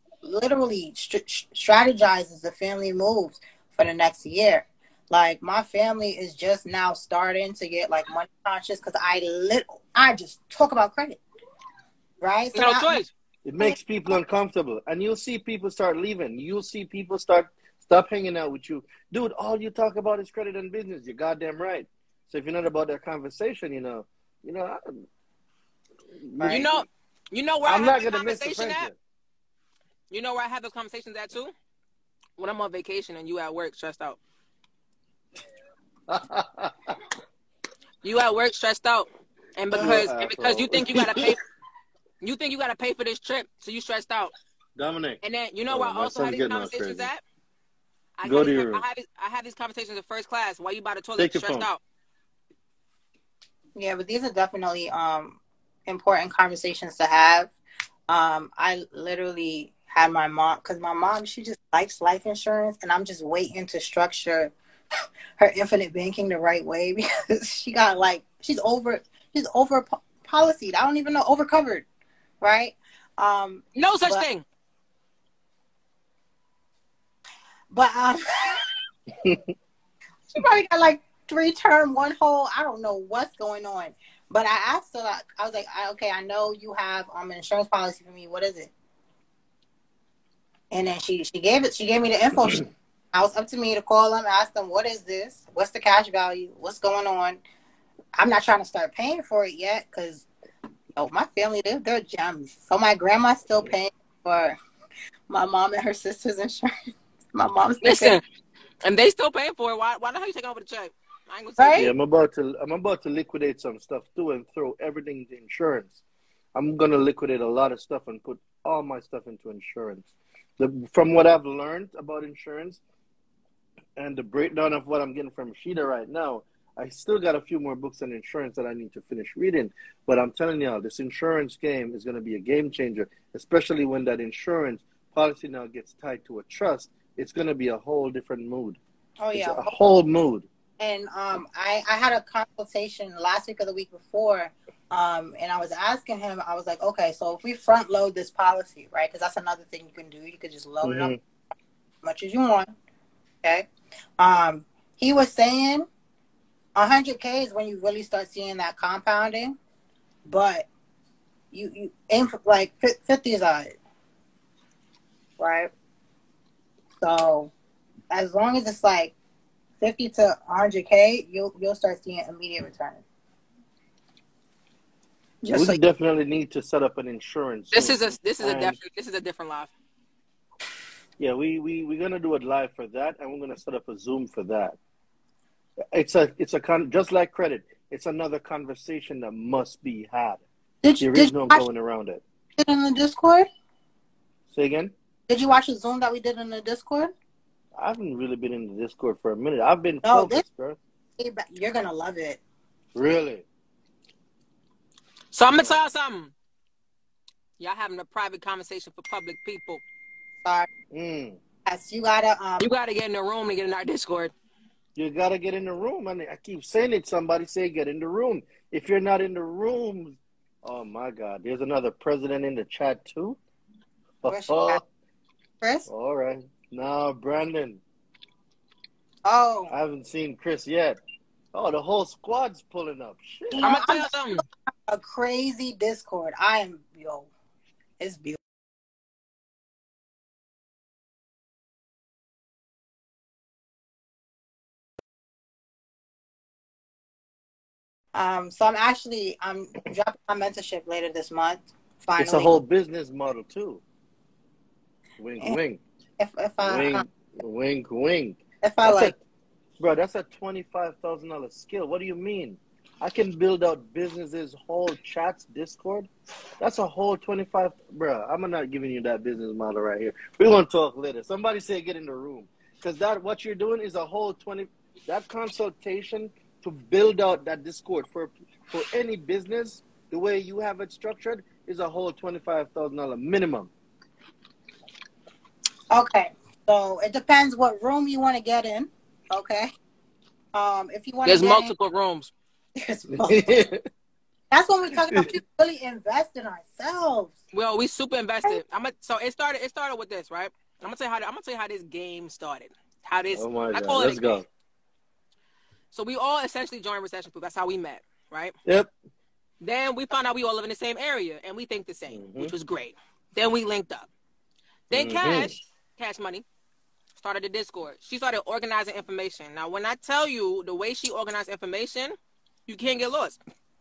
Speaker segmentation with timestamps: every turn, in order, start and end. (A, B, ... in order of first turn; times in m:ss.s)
0:00.2-0:11.2 A
0:12.2-0:13.0 A
0:12.5-0:13.1 B
0:13.4-0:25.0 C
0:13.6-0:14.1 A
0:26.1-0:26.8 C
0:26.4-0:26.7 A
0:26.4-0:28.9 B
0:27.6-0:29.0 C
0:30.1-0:31.5 B
0:32.4-0:34.2 B
0:36.1-0:37.0 C
0:38.0-0:41.4 B
0:39.7-0:41.3 C
0:42.2-0:44.3 B
0:44.8-0:47.1 C
0:45.2-0:47.2 B
0:48.2-0:51.8 B
0:48.2-0:48.8 C
0:51.2-0:51.7 C
0:53.8-0:57.5 A
0:58.1-1:04.5 A
1:05.4-1:11.8 A
1:12.4-1:14.2 A
1:13.7-1:14.4 B
1:17.7-1:18.6 A
1:19.2-1:19.5 C
1:20.3-1:28.7 A
1:30.7-1:37.4 A
1:38.2-1:40.2 A
1:41.0-1:44.6 A
1:45.3-1:46.7 A
1:47.3-1:48.2 A
1:47.8-1:48.2 B
1:48.8-1:51.9 B
1:51.6-1:51.9 A
1:51.8-1:56.0 C
1:56.5-2:02.8 C
2:04.0-2:18.8 C
2:19.2-2:19.7 A
2:19.3-2:20.5 C
2:20.8-2:31.1 A
2:30.8-2:31.2 C
2:32.0-2:32.7 A
2:33.4-2:33.7 A
2:34.2-2:35.9 A
2:36.7-2:39.6 A
2:40.2-2:40.7 A
2:41.5-2:43.7 A
2:45.4-2:45.7 A
2:47.0-2:47.5 A
2:48.1-2:49.1 A
2:49.8-2:53.0 A
2:55.4-2:55.8 A
2:55.5-2:58.8 C
2:57.7-2:59.7 B
3:01.2-3:04.8 C
3:05.9-3:10.4 C
3:10.8-3:11.6 A
3:11.0-3:12.2 C
3:12.6-3:13.5 A
3:14.5-3:14.9 C
3:15.3-3:17.1 A
3:17.8-3:20.8 C
3:20.0-3:20.4 A
3:21.2-3:22.4 A
3:22.9-3:23.4 C
3:25.3-3:26.3 B
3:25.5-3:25.8 C
3:27.6-3:29.8 B
3:30.4-3:30.7 A
3:30.9-3:31.4 C
3:31.6-3:32.7 A
3:32.6-3:34.3 B
3:35.0-3:43.4 C
3:44.2-3:44.8 C
3:44.2-3:44.8 A
3:45.6-3:45.9 A
3:45.9-3:47.8 C
3:49.2-3:49.7 A
3:49.7-3:51.0 C
3:51.5-3:53.7 C
3:53.5-3:57.3 A
3:53.6-3:54.4 B
3:58.0-3:58.4 A
4:08.1-4:12.6 A
4:12.2-4:13.8 C
4:15.2-4:15.8 C
4:16.2-4:17.0 A
4:16.6-4:19.2 C
4:18.6-4:19.1 A
4:19.8-4:26.1 C
4:26.6-4:43.7 C
4:45.9-4:49.7 A
4:50.5-4:51.7 A
4:51.2-4:52.3 B
4:52.8-4:53.6 A
4:53.1-4:53.8 C
4:54.5-4:57.4 A
4:55.0-4:55.3 C
4:57.5-5:04.4 B
5:03.4-5:04.4 C
5:05.9-5:08.6 B
5:08.6-5:08.9 C
5:09.6-5:14.1 B
5:12.1-5:12.5 C
5:14.9-5:16.4 B
5:14.9-5:15.6 C
5:17.2-5:22.2 B
5:22.7-5:23.4 B